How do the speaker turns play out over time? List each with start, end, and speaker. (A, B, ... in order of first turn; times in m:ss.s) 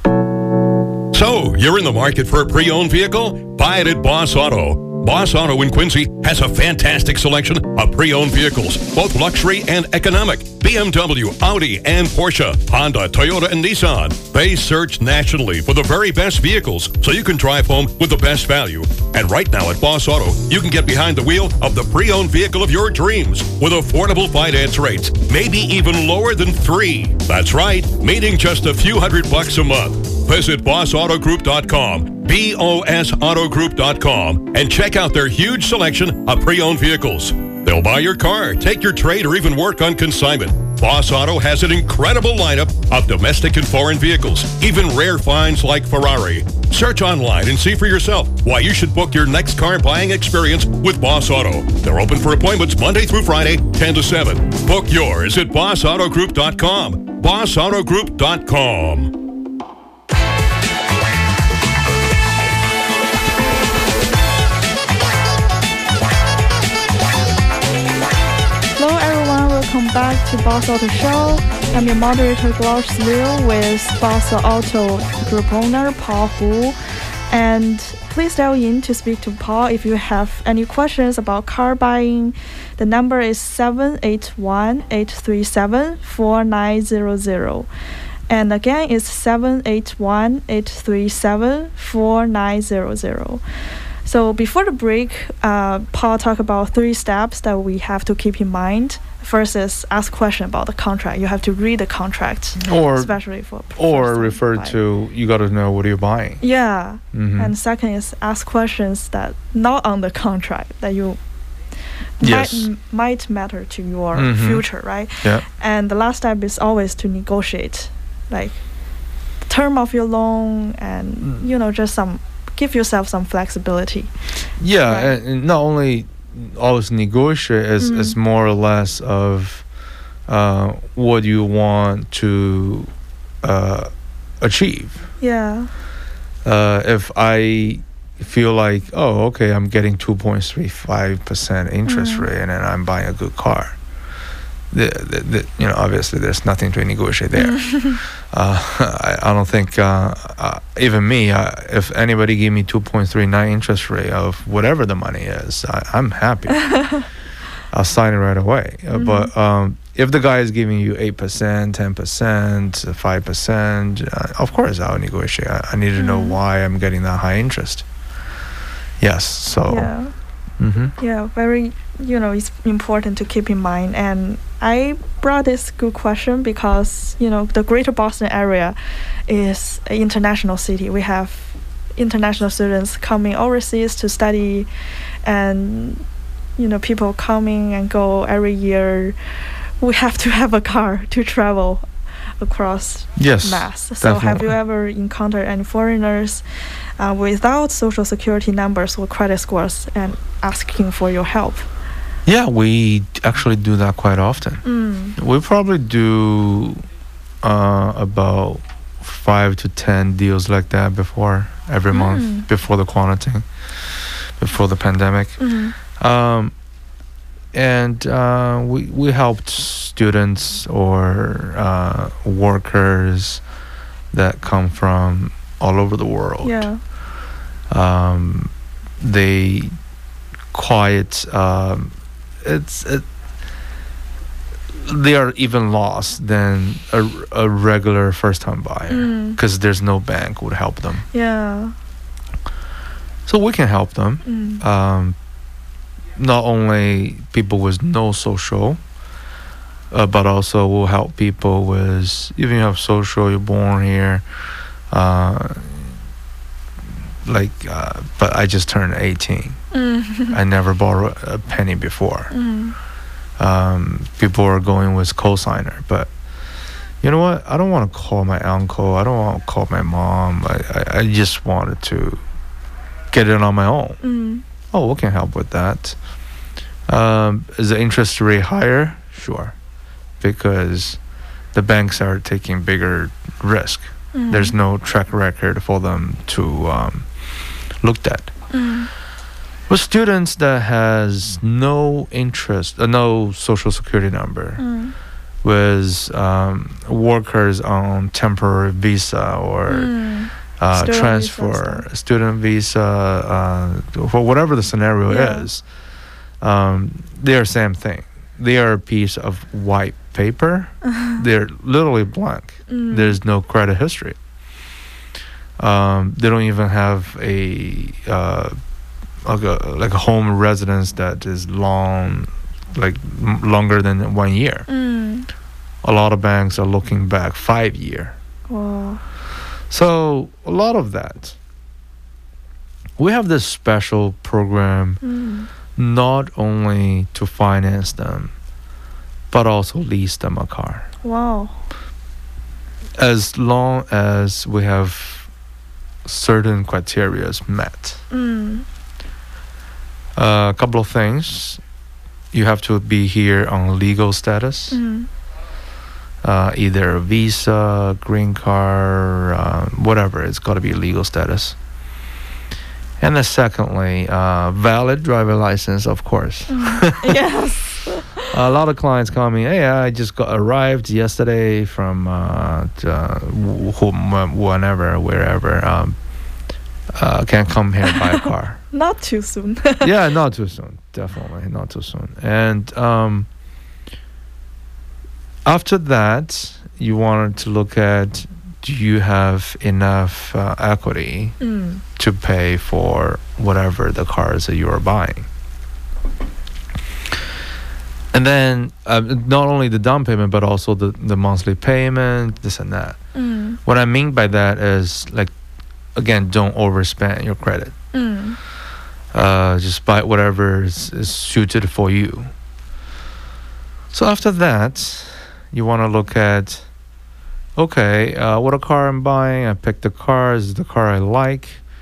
0:01.1-0:59.2 A
1:08.8-1:16.8 B
1:17.3-1:27.7 B
1:28.3-1:33.4 B
1:34.0-1:44.8 B
1:42.6-1:43.1 C
1:43.8-1:46.4 C
1:46.4-1:51.2 B
1:47.1-1:47.5 C
1:52.2-1:58.6 B
1:52.2-1:52.7 C
1:54.1-1:54.6 C
1:59.5-2:04.1 B
2:04.6-2:09.6 C
2:04.8-2:05.1 B
2:07.8-2:08.2 B
2:10.3-2:12.9 C
2:13.4-2:15.1 C
2:15.2-2:15.7 B
2:16.4-2:23.8 C
2:21.8-2:22.3 B
2:24.7-2:36.7 C
2:27.3-2:28.0 B
2:36.6-2:37.0 B
2:37.7-2:47.8 C
2:38.9-2:39.3 B
2:46.0-2:46.4 B
2:49.0-2:49.9 C
2:49.7-2:50.1 B
2:50.6-2:50.9 C
2:51.0-2:58.8 B
2:59.3-3:04.7 B
3:05.2-3:06.0 B
3:06.6-3:09.2 B
3:09.8-3:11.8 B
3:12.4-3:16.4 B
3:13.2-3:14.5 C
3:17.0-3:21.7 B
3:22.2-3:24.6 C
3:24.6-3:25.2 B
3:25.2-3:26.8 C
3:27.4-3:33.4 C
3:31.9-3:32.4 B
3:34.4-3:35.4 C
3:35.4-3:35.7 B
3:36.0-3:36.5 C
3:37.5-3:43.4 C
3:44.1-3:46.7 C
3:46.4-3:46.8 B
3:47.7-3:49.7 C
3:50.5-3:53.0 C
3:54.7-4:01.0 C
3:58.9-3:59.4 B
4:01.1-4:01.7 B
4:03.3-4:05.2 C
4:04.2-4:04.6 B
4:06.2-4:08.8 C
4:09.9-4:14.2 C
4:14.9-4:15.9 C
4:17.2-4:19.6 C
4:19.7-4:20.4 B
4:20.3-4:22.3 C
4:22.3-4:22.8 B
4:23.4-4:26.1 C
4:27.0-4:32.2 C
4:33.1-4:34.0 C
4:34.0-4:34.4 B
4:34.7-4:36.0 C
4:36.9-4:39.5 C
4:40.2-4:41.0 C
4:41.5-4:47.1 C
4:44.1-4:44.5 B
4:47.8-4:48.3 C
4:48.5-4:48.9 B
4:49.7-4:54.6 C
4:54.6-4:54.9 B
4:55.4-4:59.9 C
4:59.7-5:01.8 B
5:00.6-5:05.6 C
5:05.1-5:05.5 B
5:06.4-5:14.2 C
5:10.8-5:11.2 B
5:12.7-5:13.2 B
5:15.6-5:18.5 C
5:19.2-5:24.6 C
5:24.7-5:25.3 B
5:25.8-5:28.2 C
5:28.5-5:29.0 B
5:29.7-5:31.4 C
5:33.0-5:35.0 C
5:35.0-5:35.5 B
5:35.8-5:38.3 C
5:39.3-5:40.9 C
5:41.0-5:41.6 B
5:43.0-5:45.3 C
5:46.0-5:48.0 C
5:48.1-5:48.6 B
5:50.2-5:51.6 C
5:52.3-5:54.8 C
5:54.7-5:55.1 B
5:56.2-6:01.6 C
6:03.0-6:07.2 C
6:06.5-6:08.2 B
6:08.3-6:16.0 C
6:16.9-6:18.6 C
6:18.0-6:19.9 B
6:19.8-6:23.3 C
6:25.4-6:31.4 C
6:31.4-6:31.8 B
6:32.0-6:35.3 C
6:38.1-6:43.0 C
6:43.1-6:43.6 B
6:43.6-6:45.3 C
6:45.9-6:47.7 C
6:47.9-6:48.4 B
6:49.1-6:52.3 C
6:53.9-6:56.7 C
6:57.6-7:01.6 C